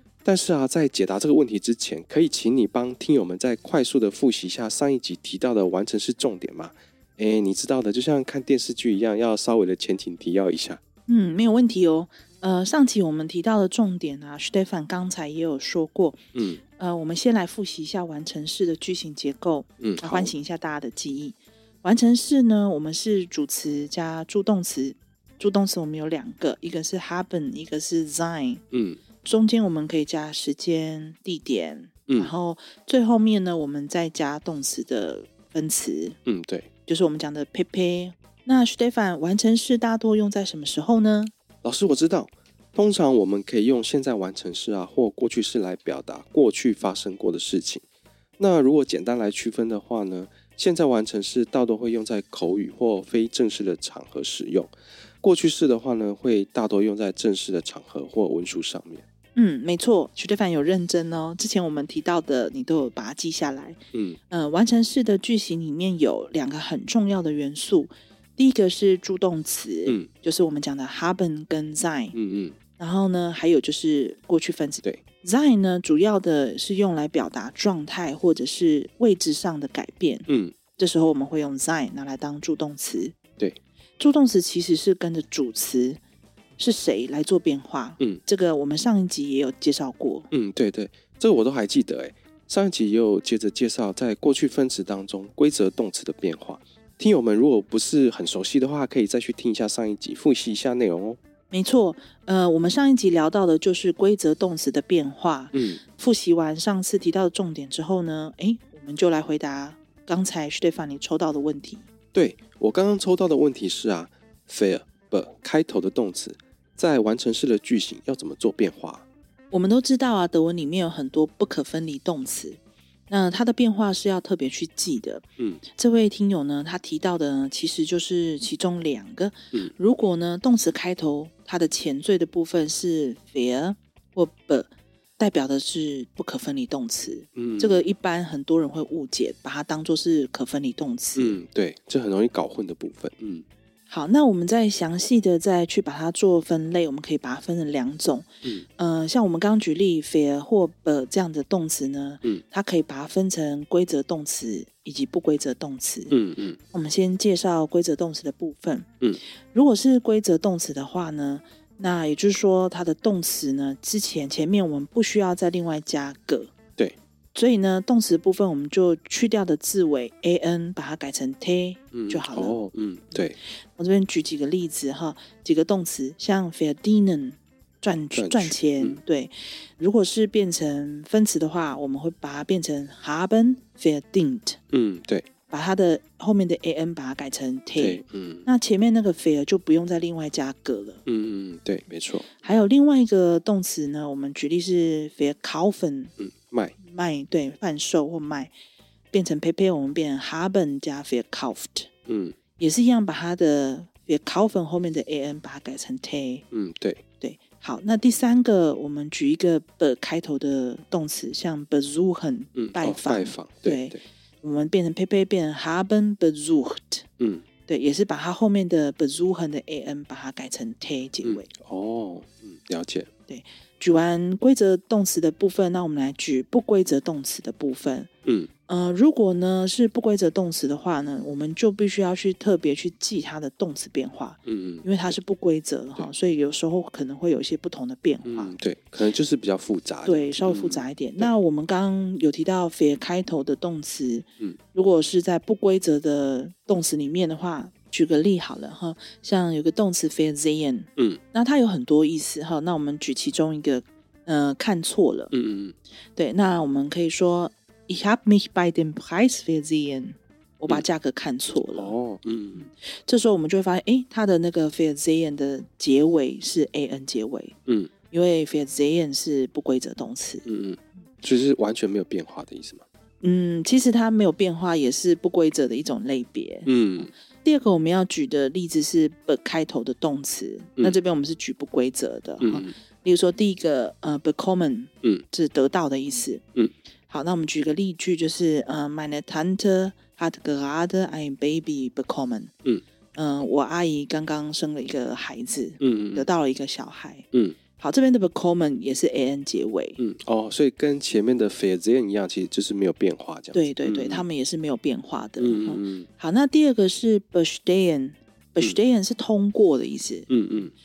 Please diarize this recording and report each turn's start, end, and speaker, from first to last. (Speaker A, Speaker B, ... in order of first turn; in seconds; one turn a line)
Speaker A: 0.2-10.8
Speaker B: 11.1-16.2
Speaker A: 16.3-16.6
Speaker B: 16.8-28.6
Speaker A: 19.8-20.3
Speaker A: 28.7-29.0
Speaker B: 29.2-36.2
Speaker A: 32.1-32.3
Speaker A: 36.2-36.7
Speaker B: 36.8-41.3
Speaker A: 41.6-47.8
Speaker A: 48.4-59.0
Speaker B: 59.3-72.2
Speaker A: 72.1-72.5
Speaker B: 72.8-83.2
Speaker A: 80.3-80.5
Speaker B: 84.0-86.0
Speaker B: 86.6-90.3
Speaker A: 90.3-101.2
Speaker B: 101.5-111.9
Speaker A: 105.5-105.8
Speaker A: 112.1-119.0
Speaker B: 119.5-141.4
Speaker A: 137.3-137.8
Speaker A: 141.2-143.4
Speaker B: 143.9-156.2
Speaker A: 156.1-156.6
Speaker B: 156.7-158.9
Speaker B: 159.5-166.5
Speaker B: 167.3-172.6
Speaker A: 171.9-173.4
Speaker B: 173.8-184.6
Speaker A: 178.1-179.0
Speaker A: 184.7-185.2
Speaker B: 185.5-191.0
Speaker A: 187.8-188.5
Speaker A: 191.1-192.3
Speaker B: 192.4-196.1
Speaker A: 196.2-196.7
Speaker B: 196.8-198.5
Speaker B: 199.1-201.9
Speaker A: 202.1-202.4
Speaker B: 202.6-206.4
Speaker A: 206.5-207.0
Speaker B: 207.2-217.1
Speaker A: 212.5-214.0
Speaker A: 217.2-217.4
Speaker B: 217.7-221.5
Speaker A: 221.2-223.1
Speaker B: 223.3-228.1
Speaker B: 228.7-238.5
Speaker A: 234.4-234.8
Speaker A: 238.2-241.3
Speaker B: 240.0-255.3
Speaker A: 255.3-255.7
Speaker B: 256.1-261.9
Speaker A: 261.7-262.7
Speaker B: 263.1-267.6
Speaker A: 267.6-267.9
Speaker B: 268.1-270.4
Speaker A: 270.4-272.8
Speaker B: 273.2-276.7
Speaker A: 276.6-277.1
Speaker B: 277.4-286.4
Speaker A: 282.4-282.7
Speaker B: 287.1-292.5
Speaker B: 293.1-300.0
Speaker A: 295.8-296.2
Speaker A: 300.0-304.2
Speaker B: 303.5-310.3
Speaker A: 305.4-306.1
Speaker A: 310.3-310.7